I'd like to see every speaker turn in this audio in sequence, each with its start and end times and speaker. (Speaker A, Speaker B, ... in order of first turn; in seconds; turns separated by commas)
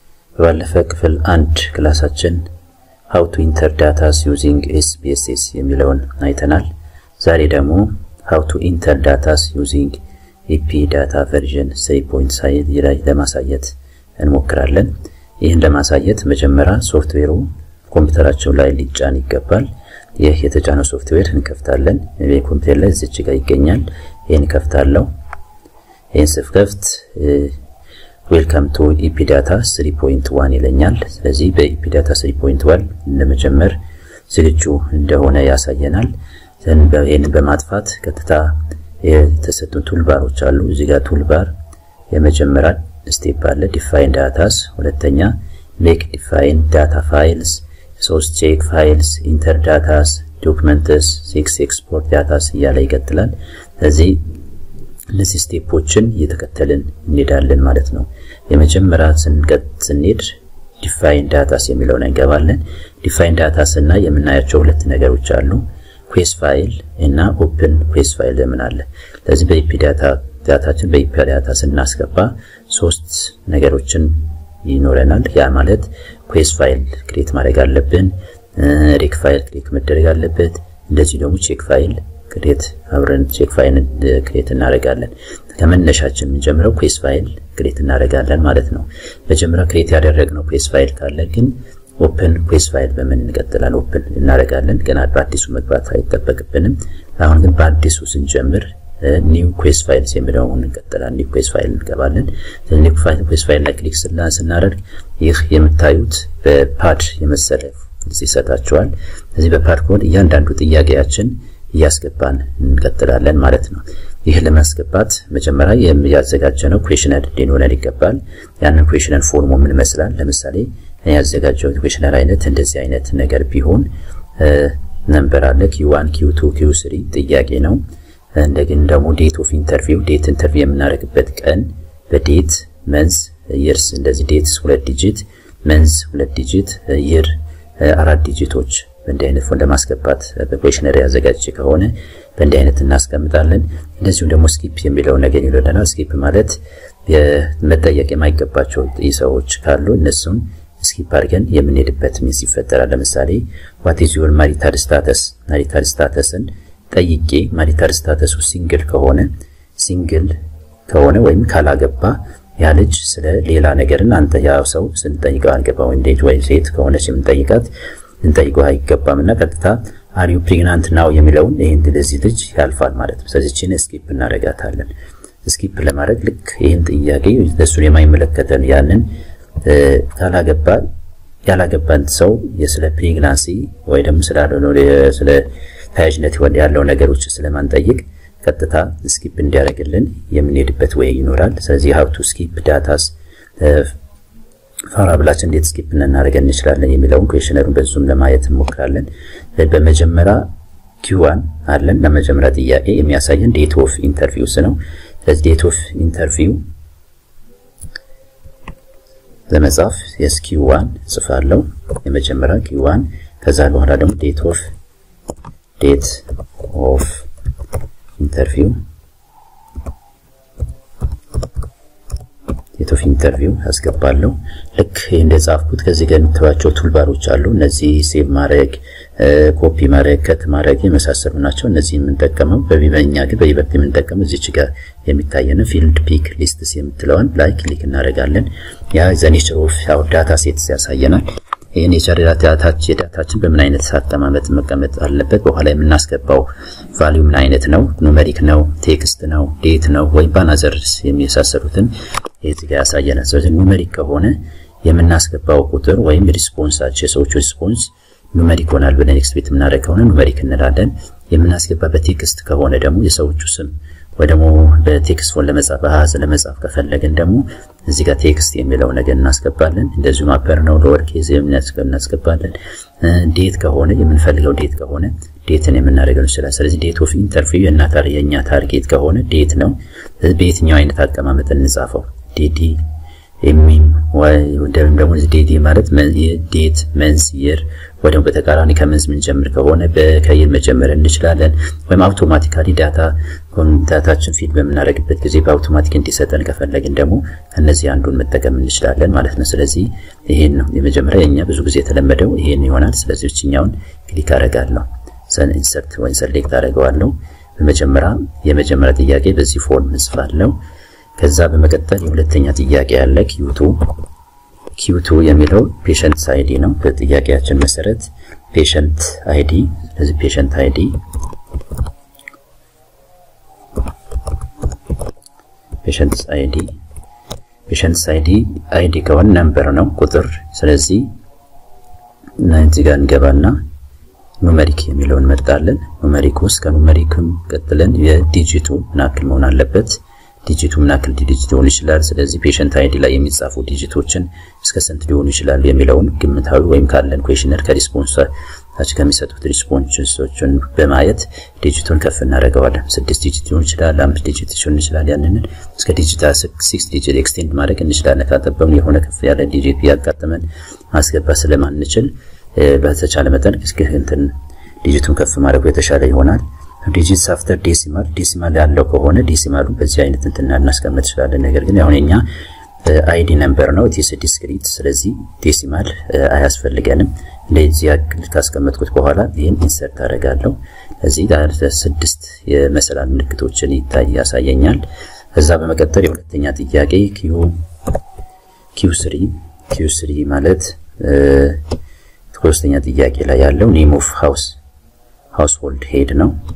Speaker A: 0.4-2.5, Speaker A: 3.1-25.1, Speaker A: 26.1-27.5, Speaker A: 28.3-41.5, Speaker A: 42.1-54.3, Speaker A: 55.1-127.8, Speaker A: 128.3-174.9, Speaker A: 175.4-180.9, Speaker A: 181.4-193.9, Speaker A: 194.9-206.6, Speaker A: 209.5-214.7, Speaker A: 215.8-217.3, Speaker A: 218.2-218.8, Speaker A: 222.8-282.8, Speaker A: 283.4-310.6, Speaker A: 311.2-313.9, Speaker A: 314.8-321.0, Speaker A: 325.8-326.8, Speaker A: 327.7-331.1, Speaker A: 332.4-333.6, Speaker A: 334.4-372.3, Speaker A: 372.8-387.5, Speaker A: 388.7-391.6, Speaker A: 392.3-394.6, Speaker A: 395.3-396.4